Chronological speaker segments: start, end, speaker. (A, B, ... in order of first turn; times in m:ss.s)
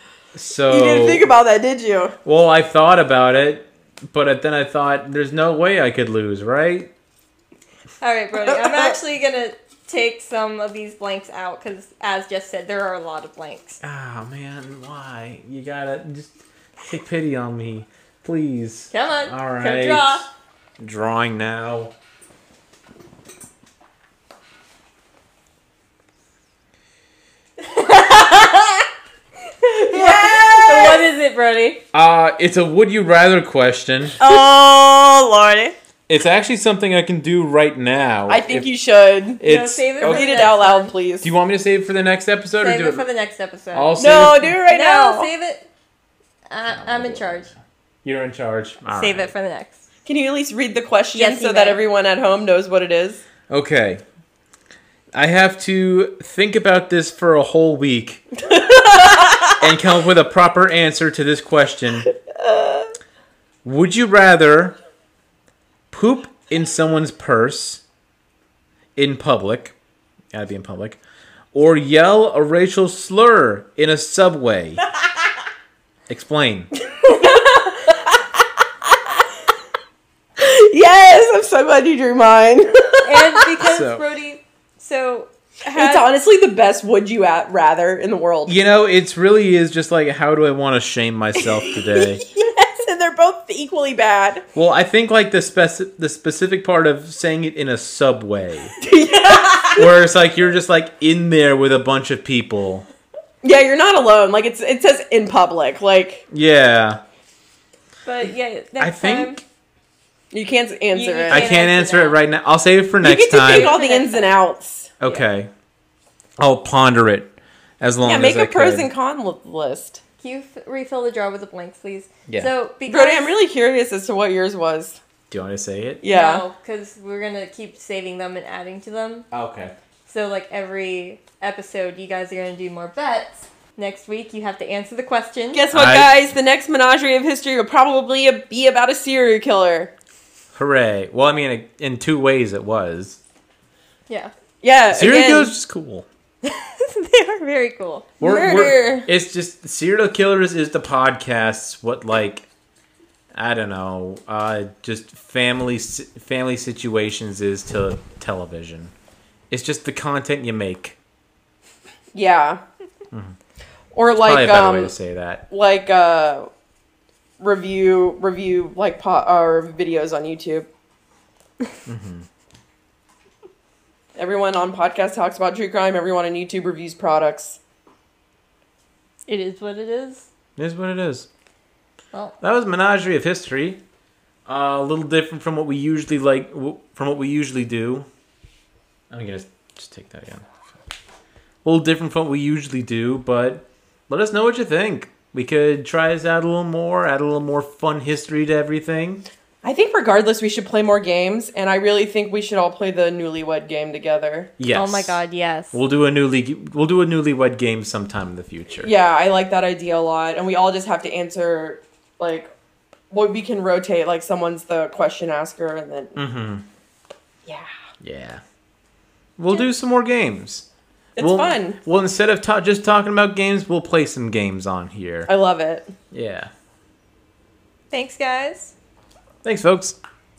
0:00.3-0:01.3 A
0:00.7-0:02.2 B
0:02.2-0:06.9 A
0:08.0-0:13.8 C
0:08.4-0:09.0 B
0:13.8-0:20.2 A
0:18.9-0:20.3 C
0:20.8-0:21.9 A
0:27.7-0:28.9 C
0:29.6-0:31.8 C
0:29.9-0:31.0 B
0:31.9-0:34.2 A
0:34.2-0:35.8 C
0:36.1-0:38.7 A
0:38.3-0:39.4 B
0:39.4-0:40.5 A
0:39.4-0:41.0 C
0:40.0-0:41.3 B
0:41.2-0:43.1 A
0:42.6-0:44.1 C
0:43.7-0:44.6 A
0:44.0-0:45.3 B
0:44.7-0:45.7 C
0:46.5-0:47.5 C
0:46.7-0:49.3 A
0:48.9-0:49.8 C
0:50.0-0:53.2 B
0:51.1-0:51.8 C
0:53.5-0:54.0 A
0:55.1-0:58.3 A
0:58.5-0:59.6 B
0:59.5-1:02.1 A
1:02.3-1:02.9 B
1:03.6-1:04.8 A
1:05.9-1:07.8 A
1:09.0-1:09.7 A
1:10.3-1:11.0 A
1:11.5-1:14.9 A
1:16.1-1:16.7 A
1:16.9-1:19.2 B
1:20.4-1:23.5 B
1:23.0-1:26.1 C
1:23.6-1:24.0 A
1:25.7-1:28.6 B
1:28.5-1:32.3 A
1:31.4-1:34.4 B
1:34.6-1:38.7 A
1:38.8-1:39.9 B
1:39.8-1:42.9 A
1:43.4-1:46.2 B
1:46.3-1:47.0 A
1:48.0-1:49.4 C
1:48.8-1:49.4 A
1:50.3-1:51.5 B
1:50.9-1:52.2 C
1:51.3-1:53.7 A
1:53.0-1:55.0 B
1:53.5-1:54.4 C
1:55.0-1:55.5 A
1:56.4-1:58.9 A
1:58.0-2:00.0 B
2:00.2-2:03.3 C
2:02.9-2:05.0 B
2:05.3-2:06.0 A
2:06.0-2:06.4 B
2:06.1-2:09.3 C
2:09.3-2:09.8 A
2:10.1-2:15.6 C
2:15.5-2:19.9 B
2:15.7-2:16.2 A
2:20.5-2:23.2 A
2:24.6-2:25.5 B
2:24.9-2:26.1 A
2:26.4-2:28.1 C
2:28.2-2:29.1 B
2:28.2-2:32.4 A
2:33.3-2:38.9 A
2:39.5-2:41.0 A
2:42.1-2:42.6 B
2:43.9-2:44.9 B
2:44.2-2:45.4 A
2:45.5-2:46.5 B
2:47.4-2:50.7 B
2:51.9-2:52.3 A
2:54.2-2:57.6 B
2:59.3-3:00.3 C
3:00.6-3:01.3 A
3:02.4-3:03.8 A
3:04.5-3:08.1 A
3:09.1-3:10.5 A
3:11.6-3:19.2 A
3:19.6-3:24.5 B
3:24.6-3:25.2 A
3:24.7-3:25.8 C
3:25.7-3:28.9 A
3:28.8-3:32.5 B
3:33.1-3:36.2 B
3:36.2-3:36.7 A
3:38.0-3:38.4 A
3:39.4-3:40.6 A
3:41.2-3:41.8 B
3:41.2-3:45.3 A
3:45.3-3:45.9 B
3:46.1-3:46.5 A
3:47.9-3:48.7 C
3:49.4-3:50.0 A